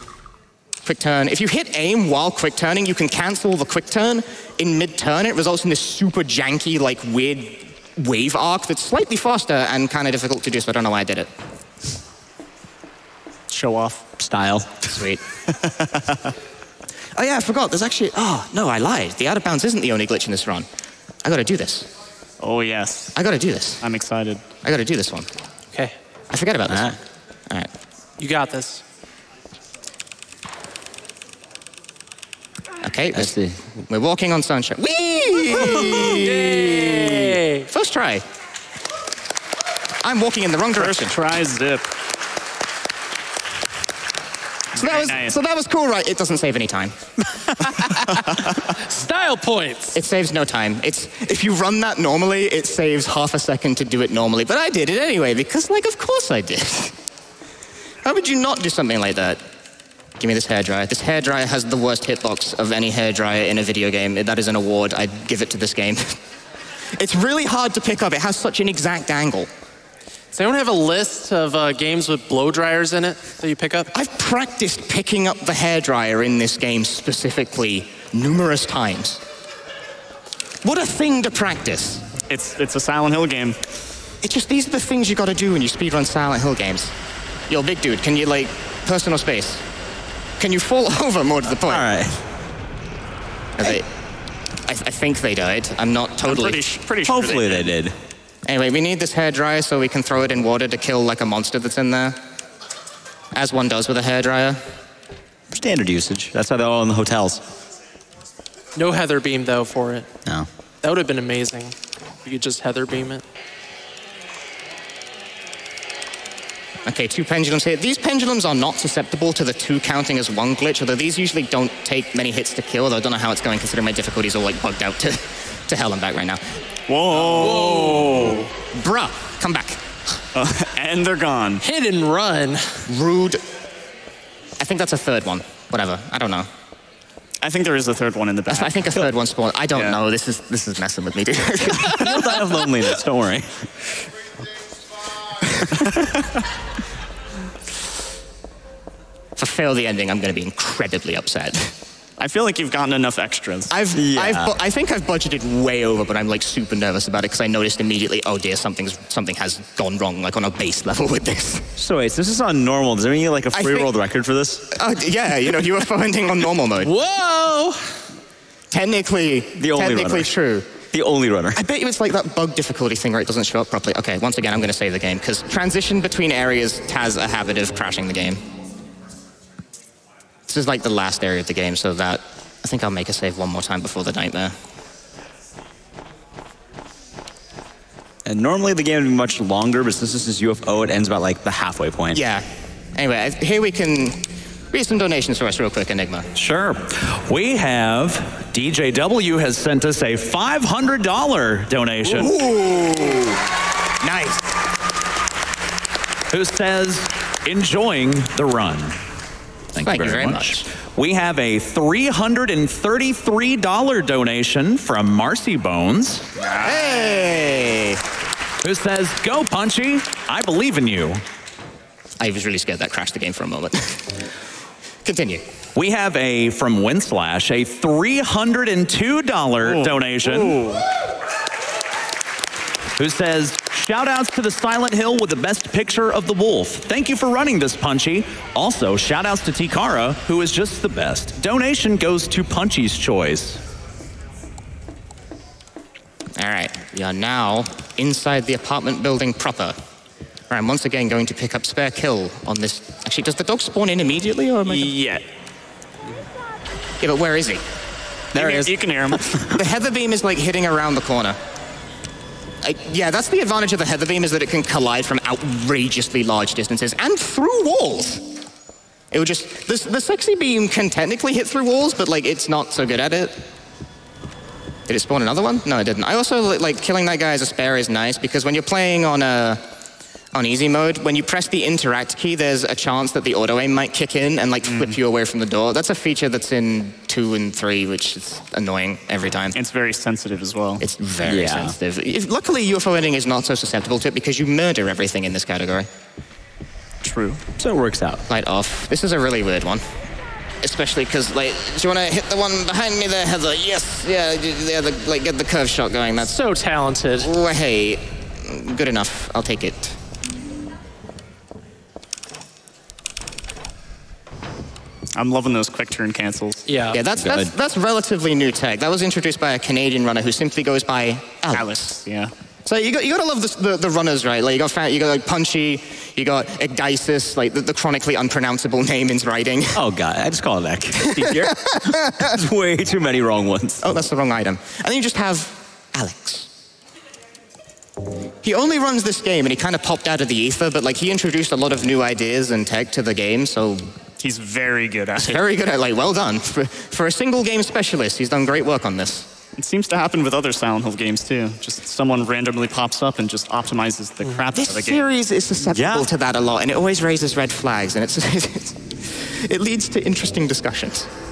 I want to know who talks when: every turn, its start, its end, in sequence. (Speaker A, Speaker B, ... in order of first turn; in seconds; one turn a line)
Speaker A: 0.8-11.3
Speaker B: 13.5-14.0
Speaker C: 14.2-14.8
Speaker A: 14.9-15.2
Speaker C: 15.6-16.2
Speaker A: 17.2-20.7
Speaker A: 21.2-21.9
Speaker B: 22.4-23.1
Speaker A: 23.1-23.8
Speaker B: 23.8-24.4
Speaker A: 24.6-25.3
Speaker A: 26.3-27.0
Speaker C: 26.7-27.0
Speaker D: 28.2-28.8
Speaker A: 32.8-38.2
Speaker C: 33.1-33.6
Speaker D: 35.7-37.7
Speaker A: 40.0-41.1
Speaker B: 40.8-41.9
Speaker B: 44.8-45.4
Speaker A: 44.8-47.0
Speaker D: 47.9-50.0
Speaker A: 50.0-57.0
Speaker A: 58.0-59.4
Speaker A: 60.2-66.2
Speaker A: 67.0-69.5
Speaker D: 70.3-73.9
Speaker A: 73.9-79.2
Speaker A: 80.6-82.0
Speaker B: 82.3-83.6
Speaker A: 84.2-86.9
Speaker A: 87.5-89.6
Speaker A: 90.4-91.9
Speaker C: 91.6-92.2
Speaker A: 93.6-93.9
Speaker A: 94.7-96.6
Speaker B: 96.2-97.7
Speaker C: 97.1-98.0
Speaker A: 98.5-102.2
Speaker A: 103.3-104.6
Speaker C: 105.5-107.4
Speaker D: 108.8-110.1
Speaker D: 110.8-113.2
Speaker A: 116.9-126.4
Speaker B: 126.9-128.4
Speaker D: 127.1-128.5
Speaker A: 128.7-129.8
Speaker B: 130.3-131.6
Speaker D: 131.6-132.8
Speaker A: 132.9-133.4
Speaker A: 134.6-136.5
Speaker B: 137.4-139.1
Speaker A: 138.5-142.3
Speaker C: 141.9-143.7
Speaker A: 149.4-151.7
Speaker B: 152.2-153.7
Speaker A: 153.7-161.7
Speaker C: 153.9-154.6
Speaker C: 161.8-164.7
Speaker A: 163.5-163.9
Speaker A: 164.7-166.9
Speaker D: 166.8-167.9
Speaker A: 168.7-170.7
Speaker C: 169.6-170.3
Speaker C: 170.9-171.6
Speaker A: 171.6-178.4
Speaker A: 180.5-184.6
Speaker C: 188.3-192.2
Speaker A: 192.1-196.3
Speaker E: 196.4-202.4
Speaker A: 202.1-203.4
Speaker A: 204.0-204.5
Speaker E: 206.3-209.0
Speaker E: 209.8-216.3
Speaker A: 209.8-210.7
Speaker B: 216.4-217.3
Speaker A: 216.5-218.0
Speaker E: 218.6-221.2
Speaker A: 222.2-224.2
Speaker A: 225.1-225.4
Speaker E: 225.8-230.6
Speaker B: 229.6-230.8
Speaker E: 233.0-243.6
Speaker A: 246.4-249.8
Speaker A: 250.5-254.9
Speaker B: 254.7-255.3
Speaker A: 257.0-257.6
Speaker C: 258.3-258.8
Speaker B: 258.3-259.5
Speaker A: 259.5-261.4
Speaker A: 262.6-268.2
Speaker A: 269.1-273.4
Speaker A: 274.9-279.6
Speaker A: 280.3-289.6
Speaker B: 289.5-290.8
Speaker A: 290.8-295.9
Speaker C: 291.2-291.8
Speaker B: 297.0-297.4
Speaker C: 297.6-298.2
Speaker A: 298.3-299.9
Speaker A: 300.6-306.4
Speaker D: 306.2-307.3
Speaker A: 307.2-310.0
Speaker B: 315.2-316.7
Speaker D: 316.7-317.0
Speaker A: 316.9-322.0
Speaker C: 317.2-317.5
Speaker B: 321.5-322.3
Speaker A: 322.7-329.8
Speaker C: 329.8-333.8
Speaker A: 331.1-332.4
Speaker A: 333.8-336.5
Speaker A: 338.4-343.9
Speaker B: 344.2-345.4
Speaker A: 345.2-349.3
Speaker B: 349.6-355.0
Speaker A: 354.6-361.1
Speaker C: 355.7-356.1